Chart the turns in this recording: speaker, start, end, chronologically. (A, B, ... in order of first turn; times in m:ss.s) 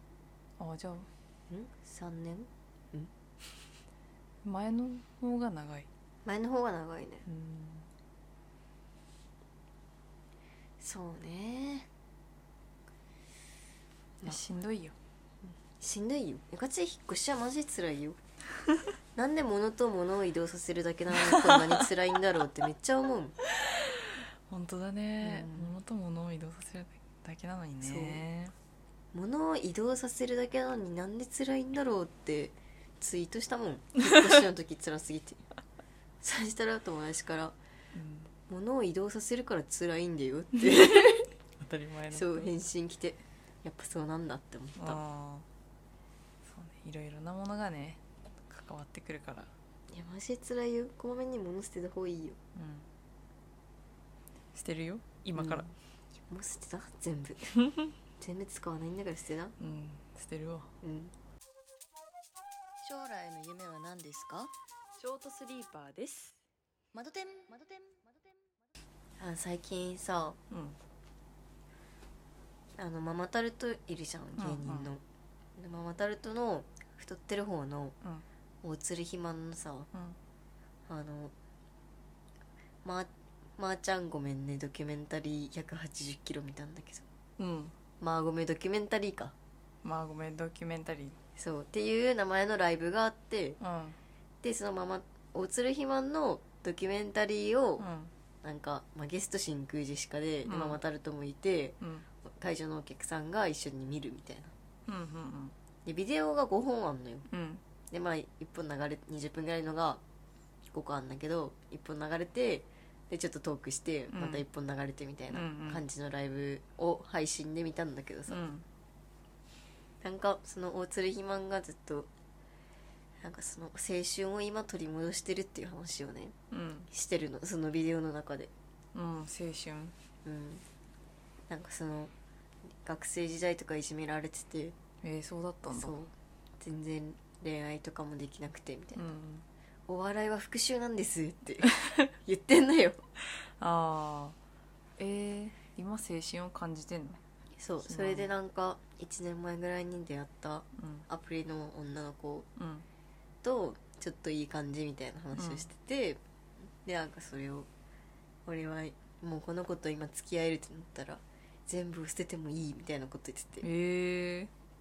0:00.6-0:01.1 A
0:01.5-0:03.1 B
0:04.4-0:05.9 A
0:06.2-0:07.3 B
0:07.3-0:07.9 A
0:10.8-0:11.9 B
0:14.2-0:15.0 A
0:15.8-0:18.2 B
0:19.2-0:23.4 B
0:21.2-0:21.8 A
0:23.6-0:28.5 A
0:25.2-0:25.7 B
0:27.8-0:28.2 B
0:29.1-0:35.4 B
0:34.1-0:34.4 A
0:36.2-0:37.6 B
0:37.9-0:38.3 A
0:38.5-0:41.3 B
0:40.6-0:42.5 A
0:42.1-0:45.0 B
0:44.8-0:45.5 A
0:46.4-0:49.5 A
0:49.9-0:52.4 B
0:52.6-0:52.9 A
0:54.5-0:55.7 A
0:55.4-0:57.6 B
0:58.2-0:59.6 B
0:59.6-1:00.7 A
1:00.8-1:01.1 B
1:02.8-1:04.5 B
1:05.0-1:06.4 A
1:06.9-1:08.0 B
1:09.2-1:10.4 B
1:10.5-1:10.8 A
1:12.8-1:15.0 B
1:14.4-1:14.9 A
1:15.6-1:18.0 B
1:18.6-1:19.9 B
1:19.9-1:20.2 A
1:20.9-1:21.3 B
1:22.8-1:27.1 B
1:27.4-1:27.8 A
1:28.0-1:29.4 B
1:29.8-1:31.2 A
1:31.4-1:33.6 B
1:33.6-1:34.0 A
1:34.4-1:37.9 B
1:37.8-1:38.1 A
1:38.4-1:44.5 B
1:40.4-1:40.8 A
1:41.8-1:42.1 A
1:44.9-1:45.6 A
1:45.8-1:47.3 B
1:47.3-1:47.6 A
1:47.9-1:50.0 B
1:50.7-1:58.5 B
1:54.1-1:54.4 A
1:55.3-1:55.8 A
1:58.3-1:58.7 A
2:00.0-2:02.1 B
2:03.2-2:06.4 B
2:06.5-2:06.9 A
2:06.9-2:08.5 B
2:08.9-2:10.0 A
2:10.2-2:10.6 B
2:11.5-2:12.1 B
2:12.8-2:14.8 B
2:15.0-2:16.0 A
2:15.7-2:19.0 B
2:19.0-2:19.5 A
2:19.9-2:23.0 B
2:21.6-2:22.0 A
2:23.4-2:24.4 A
2:25.0-2:27.2 A
2:27.6-2:32.5 B
2:27.9-2:28.3 A
2:30.8-2:31.1 A
2:32.6-2:32.9 A
2:33.4-2:36.2 B
2:35.4-2:35.7 A
2:36.8-2:37.7 B
2:38.5-2:43.7 B
2:43.6-2:44.5 A